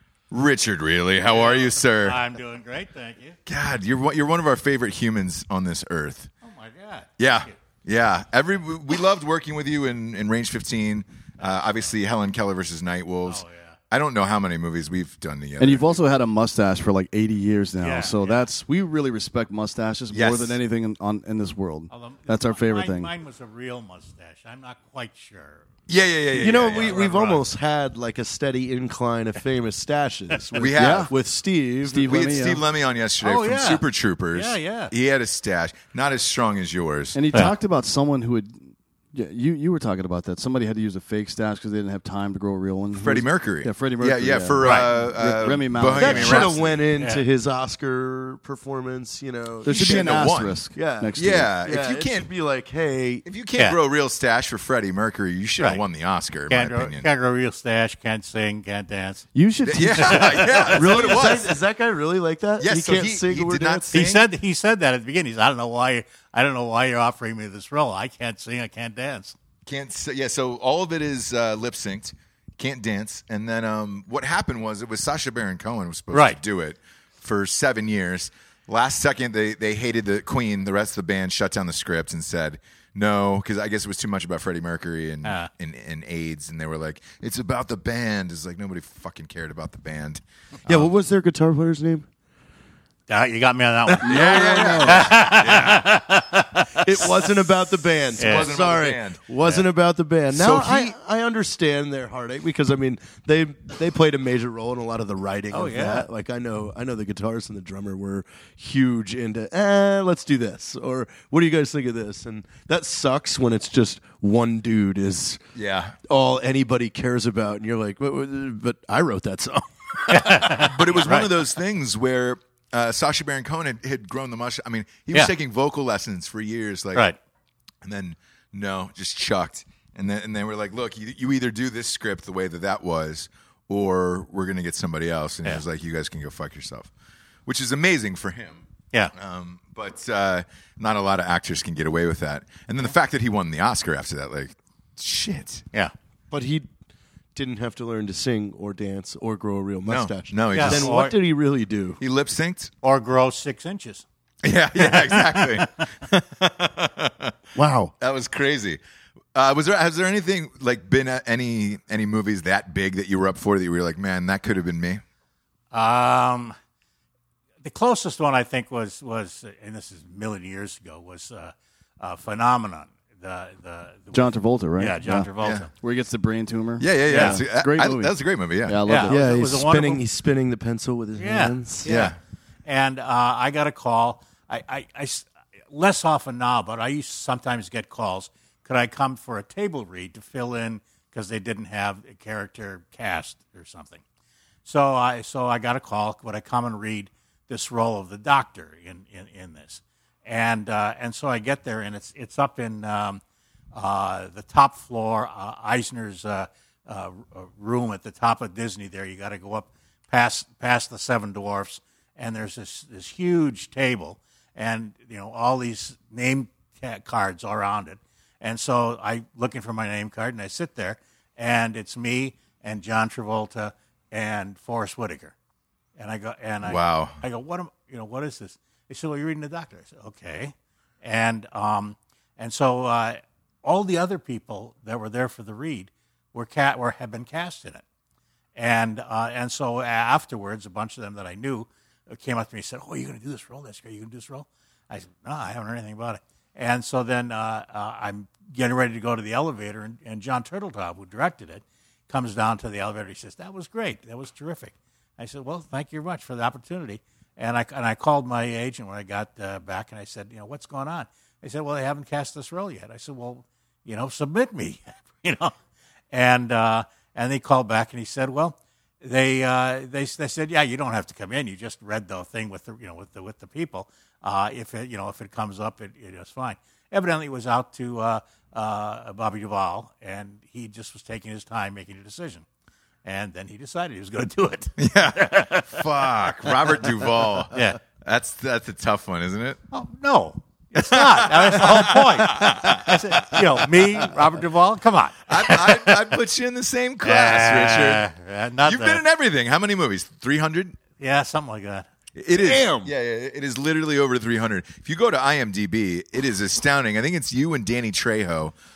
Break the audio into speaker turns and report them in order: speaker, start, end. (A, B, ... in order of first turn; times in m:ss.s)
0:00.3-0:02.2 A
0:01.2-0:03.4 B
0:03.5-0:06.3 A
0:06.4-0:07.5 B
0:07.2-0:16.0 A
0:11.4-0:11.9 B
0:13.2-0:13.8 B
0:15.6-0:23.1 C
0:17.8-0:18.5 B
0:20.1-0:20.6 A
0:21.9-0:25.6 B
0:25.9-0:27.1 A
0:26.3-0:32.3 D
0:26.5-0:27.4 B
0:30.5-0:31.1 A
0:30.8-0:31.1 C
0:31.8-0:32.6 C
0:32.0-0:37.2 A
0:33.2-0:34.9 B
0:37.1-0:46.6 C
0:42.9-0:46.8 A
0:44.6-0:44.9 B
0:46.0-0:53.2 D
0:47.0-0:47.2 B
0:49.6-0:51.5 C
0:49.6-0:50.6 A
0:51.2-0:52.3 A
0:53.2-0:57.1 A
0:56.5-0:59.3 B
0:59.3-1:01.0 C
0:59.6-1:01.5 A
1:00.0-1:00.8 B
1:00.7-1:04.0 D
1:02.6-1:04.2 A
1:03.9-1:09.4 B
1:09.6-1:30.9 A
1:16.1-1:16.4 B
1:25.2-1:25.5 B
1:30.6-1:32.1 D
1:33.1-1:37.2 B
1:33.9-1:35.9 A
1:34.0-1:35.1 C
1:36.8-1:55.4 D
1:38.2-1:39.6 A
1:38.2-1:38.5 B
1:40.3-1:41.0 A
1:45.5-1:46.1 B
1:55.5-1:56.0 A
1:56.1-2:00.5 D
2:00.1-2:01.3 B
2:00.5-2:07.0 A
2:07.8-2:16.9 A
2:17.4-2:18.6 A
2:19.1-2:25.6 A
2:26.3-2:26.7 D
2:27.3-2:32.0 D
2:29.9-2:30.9 A
2:30.5-2:31.2 B
2:32.0-2:32.7 A
2:32.8-2:34.0 B
2:34.4-2:37.3 A
2:34.8-2:35.8 B
2:37.5-2:37.9 D
2:38.0-2:38.8 A
2:39.3-2:45.0 A
2:45.7-2:46.5 B
2:47.6-2:54.3 B
2:54.1-2:58.1 C
2:54.8-2:55.7 B
2:56.8-2:58.8 A
2:57.1-2:57.4 B
2:58.6-2:59.3 C
2:58.9-3:00.0 B
2:59.0-3:01.9 D
3:01.2-3:02.1 B
3:01.8-3:02.2 A
3:02.6-3:14.0 B
3:14.6-3:23.2 B
3:23.7-3:45.3 B
3:46.0-3:57.8 B
3:46.6-3:47.2 A
3:58.5-4:25.5 B
4:26.1-4:42.4 B
4:43.0-4:46.5 B
4:44.8-4:49.6 A
4:47.5-4:47.8 B
4:49.7-4:56.0 B
4:50.8-4:53.4 A
4:55.3-4:58.0 A
4:57.0-4:59.0 B
4:58.6-5:00.8 A
5:01.0-5:01.9 B
5:02.1-5:08.5 A
5:02.3-5:02.9 D